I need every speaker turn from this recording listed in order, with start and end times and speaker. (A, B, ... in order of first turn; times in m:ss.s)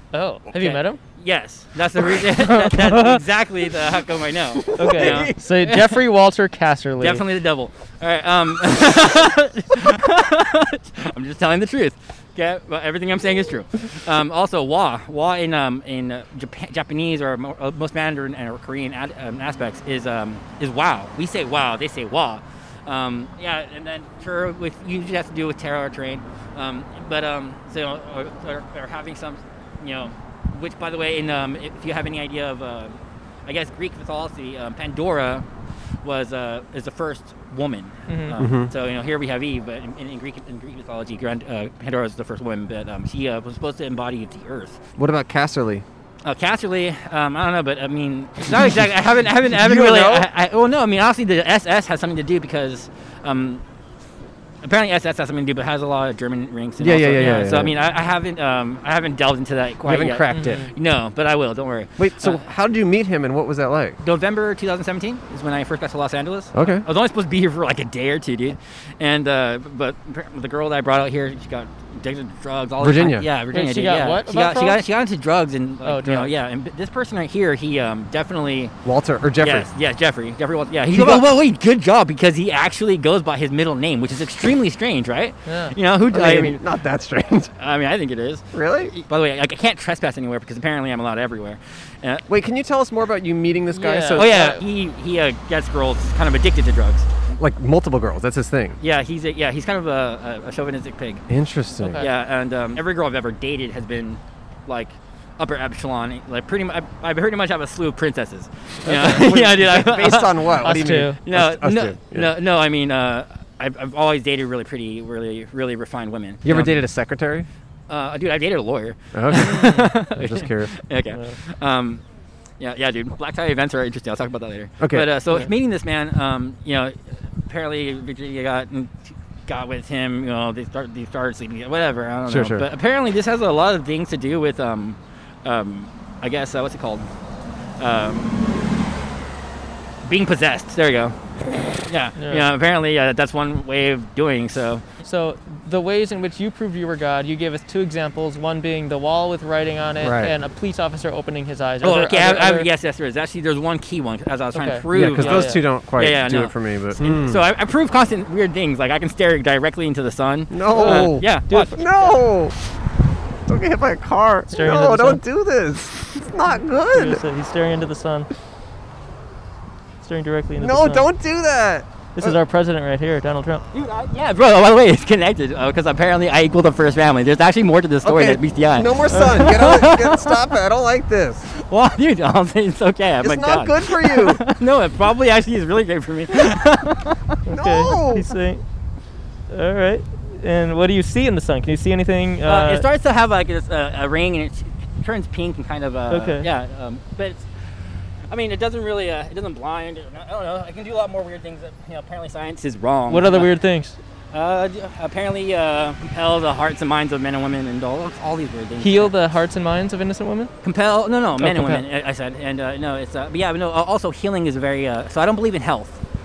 0:00.1-0:01.0 A
0:00.5-0:06.0 B
0:02.4-0:03.2 A
0:04.6-0:05.3 C
0:04.8-0:07.2 A
0:07.0-0:35.4 B
0:36.0-0:44.8 B
0:38.1-0:38.4 A
0:38.4-0:38.7 C
0:45.0-0:45.8 C
0:46.2-0:53.6 B
0:49.5-0:50.3 C
0:54.6-1:02.4 B
0:56.8-0:57.7 C
0:57.2-0:57.6 A
0:59.8-1:00.7 C
1:00.3-1:00.7 A
1:02.0-1:04.0 C
1:04.0-1:18.7 B
1:06.5-1:06.8 C
1:12.8-1:13.3 C
1:13.5-1:14.8 A
1:15.8-1:16.3 A
1:18.8-1:19.7 C
1:19.4-1:26.6 B
1:20.9-1:21.3 C
1:25.4-1:25.7 A
1:26.1-1:27.5 C
1:27.6-1:32.3 B
1:28.5-1:28.9 C
1:32.3-1:34.6 C
1:33.7-1:34.6 A
1:34.1-1:37.3 B
1:37.4-1:38.8 C
1:38.8-1:41.2 B
1:41.3-1:42.0 C
1:41.8-1:42.1 A
1:42.0-1:50.6 B
1:48.8-1:52.3 C
1:48.9-1:49.2 A
1:50.6-1:51.2 A
1:51.2-1:56.8 B
1:56.4-1:57.5 C
1:57.9-2:02.0 B
1:59.1-2:00.7 C
1:59.3-1:59.9 A
2:01.1-2:01.4 A
2:02.6-2:17.1 B
2:04.8-2:05.1 C
2:12.3-2:12.7 C
2:17.8-2:18.4 B
2:20.0-2:21.1 B
2:21.8-2:24.8 B
2:22.2-2:22.5 A
2:25.0-2:32.7 A
2:30.0-2:30.3 C
2:31.8-2:42.0 B
2:34.5-2:35.6 A
2:34.9-2:37.4 C
2:40.5-2:42.5 C
2:40.7-2:41.9 A
2:43.5-2:47.2 C
2:44.5-2:45.2 A
2:46.8-2:48.3 A
2:50.0-2:51.1 A
2:50.6-2:52.4 C
2:52.2-2:53.6 A
2:53.7-3:00.5 B
2:58.0-3:01.5 C
2:59.1-2:59.5 A
3:01.5-3:07.2 B
3:03.2-3:04.4 C
3:07.4-3:08.6 A
3:07.5-3:08.3 C
3:09.5-3:12.8 A
3:12.4-3:17.5 B
3:16.1-3:16.5 A
3:18.3-3:23.5 B
3:23.1-3:24.0 A
3:24.3-3:29.1 B
3:28.8-3:30.5 A
3:30.6-3:36.0 B
3:31.4-3:31.8 A